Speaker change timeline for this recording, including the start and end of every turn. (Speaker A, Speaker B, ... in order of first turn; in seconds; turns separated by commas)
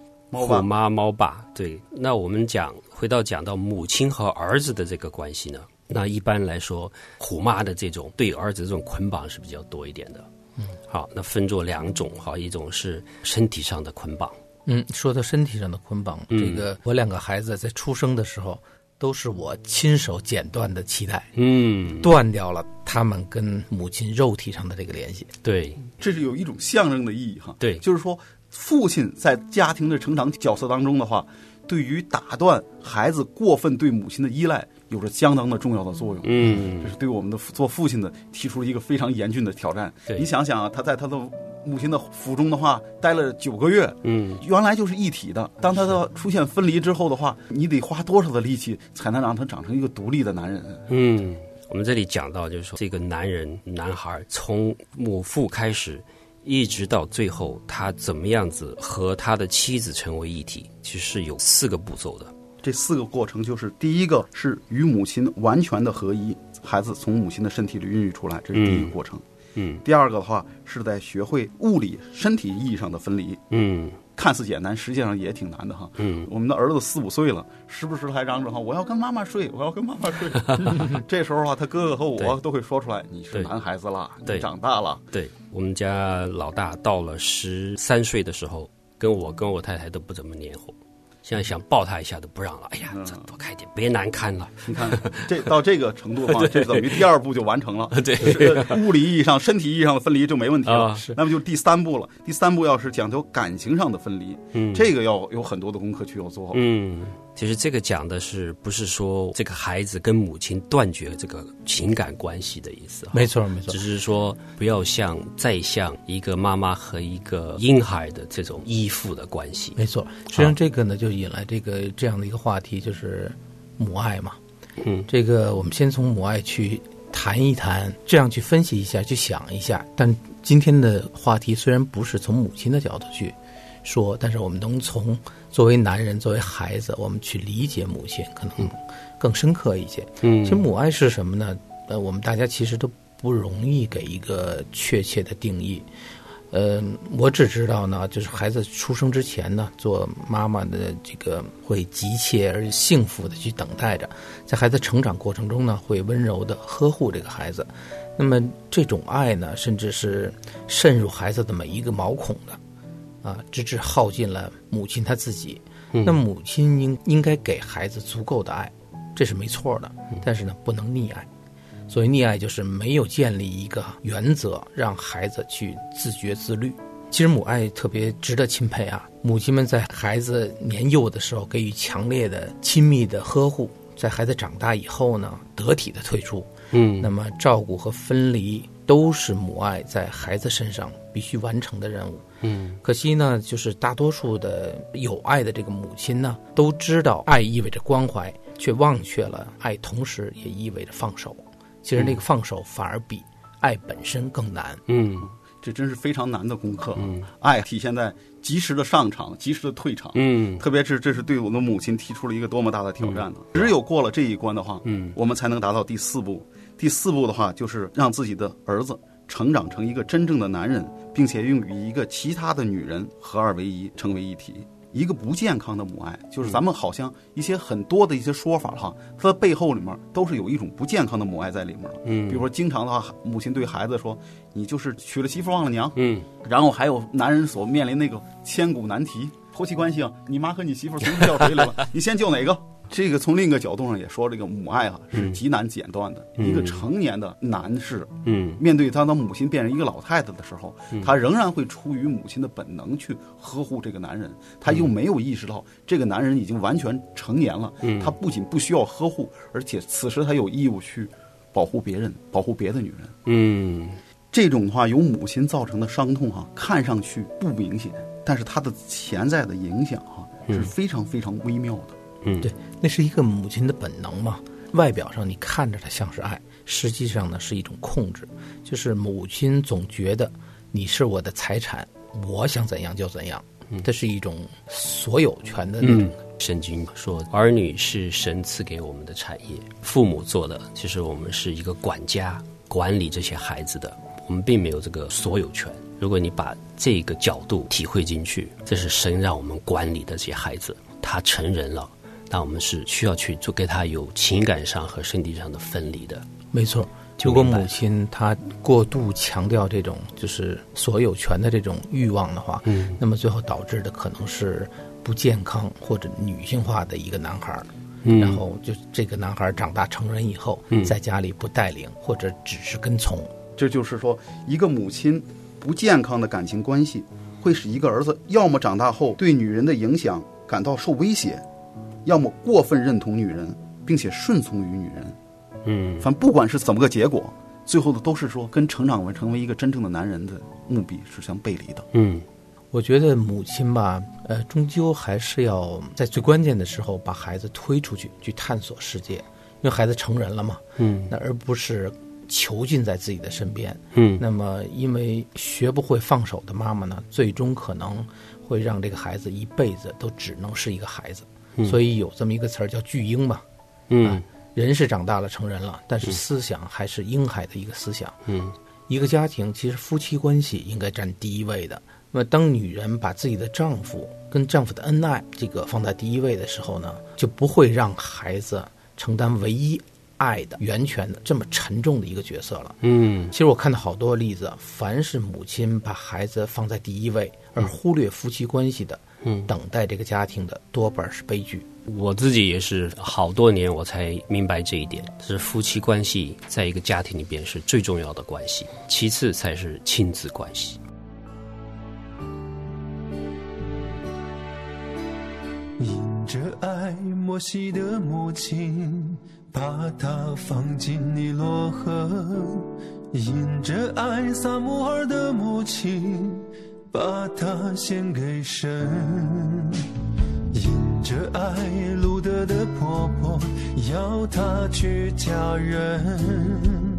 Speaker A: 0.3-0.7, Speaker B: 0.3-10.2, Speaker B: 10.9-14.4, Speaker C: 14.7-21.3, Speaker B: 16.3-16.6, Speaker B: 21.4-22.1, Speaker C: 22.0-25.3, Speaker B: 25.4-25.8, Speaker A: 26.0-50.9, Speaker B: 36.2-36.9, Speaker B: 44.0-44.4, Speaker B: 50.9-62.3, Speaker A: 62.6-69.2, Speaker B: 68.5-68.9, Speaker B: 69.6-69.8, Speaker A: 69.8-73.4, Speaker B: 73.5-74.0, Speaker A: 74.2-85.0, Speaker B: 76.0-76.3, Speaker B: 85.1-90.8, Speaker B: 91.2-95.4, Speaker A: 92.9-93.2, Speaker A: 94.6-106.6, Speaker B: 96.3-97.0, Speaker B: 97.9-98.8, Speaker B: 100.7-101.1, Speaker B: 104.5-104.9, Speaker B: 106.5-119.8, Speaker C: 113.1-113.8, Speaker C: 119.8-124.4, Speaker B: 124.8-125.1, Speaker C: 125.1-145.8, Speaker B: 140.2-140.6, Speaker C: 146.5-162.6, Speaker C: 163.2-171.3, Speaker C: 171.9-192.2, Speaker B: 186.7-187.1, Speaker B: 192.4-192.8, Speaker C: 192.8-204.8, Speaker B: 204.9-205.3, Speaker A: 205.6-263.1, Speaker B: 207.0-207.3, Speaker B: 210.2-210.6, Speaker B: 213.0-213.7, Speaker B: 214.8-215.2, Speaker B: 232.0-232.4, Speaker B: 236.0-236.2, Speaker B: 246.4-246.8, Speaker B: 248.2-248.6, Speaker B: 257.8-258.1, Speaker B: 263.2-264.0, Speaker A: 264.3-271.9, Speaker C: 272.4-286.1, Speaker B: 285.8-306.2, Speaker C: 306.5-323.3, Speaker B: 307.2-307.7, Speaker B: 312.6-313.0, Speaker B: 318.0-318.4, Speaker A: 323.6-331.4, Speaker A: 332.0-335.2, Speaker B: 335.6-336.1, Speaker A: 336.0-341.9, Speaker B: 341.9-342.2, Speaker C: 342.7-363.4, Speaker B: 350.8-351.1, Speaker B: 353.9-354.2, Speaker B: 363.9-364.2, Speaker C: 364.0-368.2, Speaker B: 368.3-368.5, Speaker C: 368.9-382.8, Speaker B: 382.8-383.3, Speaker C: 383.3-391.6, Speaker B: 389.2-389.5, Speaker B: 391.9-400.8, Speaker D: 405.9-408.7, Speaker D: 409.5-411.8, Speaker D: 413.2-416.3, Speaker D: 416.9-418.6, Speaker D: 420.7-423.1, Speaker D: 423.9-425.0, Speaker D: 425.5-425.8